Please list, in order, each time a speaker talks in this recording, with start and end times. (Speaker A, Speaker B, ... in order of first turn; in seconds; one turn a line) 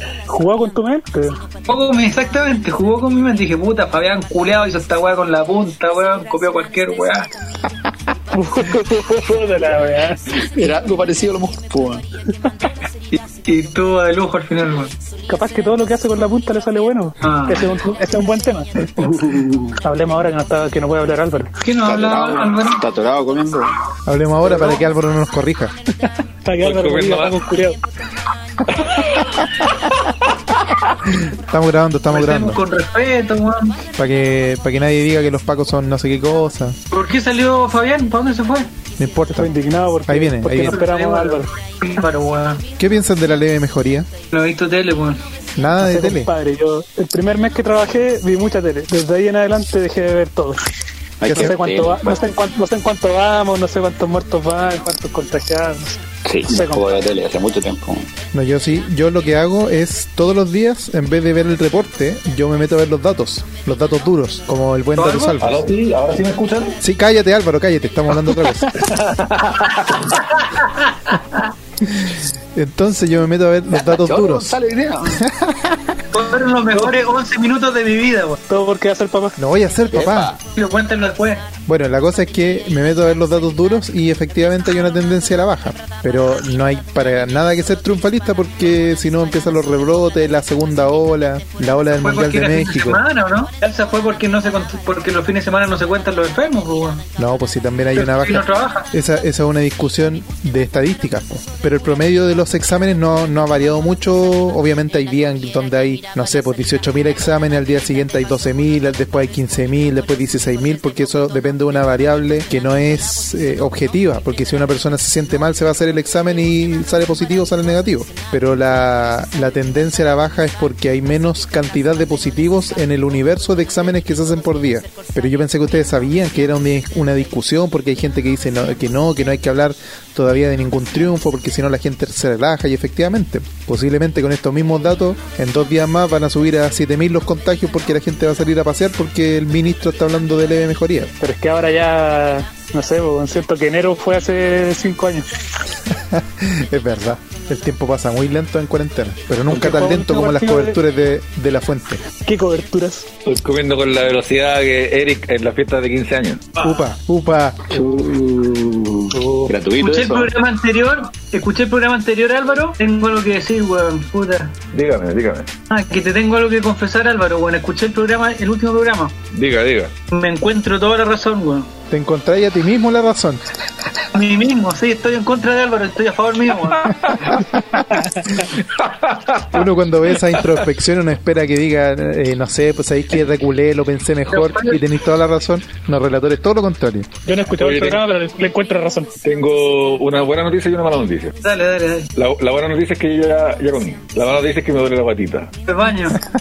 Speaker A: 0.3-1.4
Speaker B: 1.7-7.3
Speaker A: 8.3-10.2
Speaker C: 10.4-12.0
Speaker B: 13.4-14.9
Speaker A: 15.3-18.9
Speaker B: 17.2-17.7
Speaker C: 19.0-19.8
Speaker A: 19.8-21.5
Speaker B: 21.6-22.8
Speaker C: 21.8-23.7
Speaker D: 24.1-25.7
Speaker A: 26.4-27.8
Speaker E: 26.6-27.4
Speaker D: 31.2-32.6
Speaker B: 32.1-33.8
Speaker D: 33.9-36.8
Speaker B: 36.9-38.7
Speaker D: 39.0-39.5
Speaker A: 39.3-41.5
Speaker D: 40.1-40.8
Speaker B: 40.7-42.6
Speaker D: 42.8-44.1
Speaker B: 44.3-45.2
Speaker D: 45.6-46.3
Speaker A: 45.8-50.6
Speaker C: 51.2-52.3
Speaker D: 51.2-51.5
Speaker A: 51.3-56.9
Speaker C: 56.2-58.1
Speaker D: 58.3-65.7
Speaker B: 64.9-65.4
Speaker E: 65.4-66.8
Speaker D: 66.8-68.8
Speaker E: 68.3-70.2
Speaker B: 69.9-71.5
Speaker D: 72.0-75.8
Speaker C: 73.7-75.2
Speaker B: 76.1-78.4
Speaker A: 78.5-79.4
Speaker D: 79.4-80.3
Speaker C: 79.9-80.4
Speaker B: 80.5-81.5
Speaker D: 81.7-93.0
Speaker B: 92.0-97.0
Speaker D: 97.2-141.1
Speaker B: 97.9-98.9
Speaker A: 141.2-145.3
Speaker D: 146.1-152.0
Speaker A: 149.5-150.8
Speaker A: 152.2-153.1
Speaker E: 153.2-156.4
Speaker D: 156.6-157.9
Speaker C: 157.7-160.3
Speaker A: 159.2-159.5
Speaker B: 159.7-164.5
Speaker E: 164.7-165.5
Speaker B: 165.7-169.2
Speaker E: 169.3-169.9
Speaker B: 170.1-171.7
Speaker D: 171.9-173.4
Speaker B: 174.1-177.3
Speaker A: 177.9-178.4
Speaker E: 178.7-179.6
Speaker D: 179.5-187.1
Speaker B: 184.3-184.8
Speaker A: 187.2-189.1
Speaker E: 187.6-188.0
Speaker E: 189.2-191.3
Speaker B: 191.4-192.1
Speaker E: 192.1-195.5
Speaker B: 195.7-196.2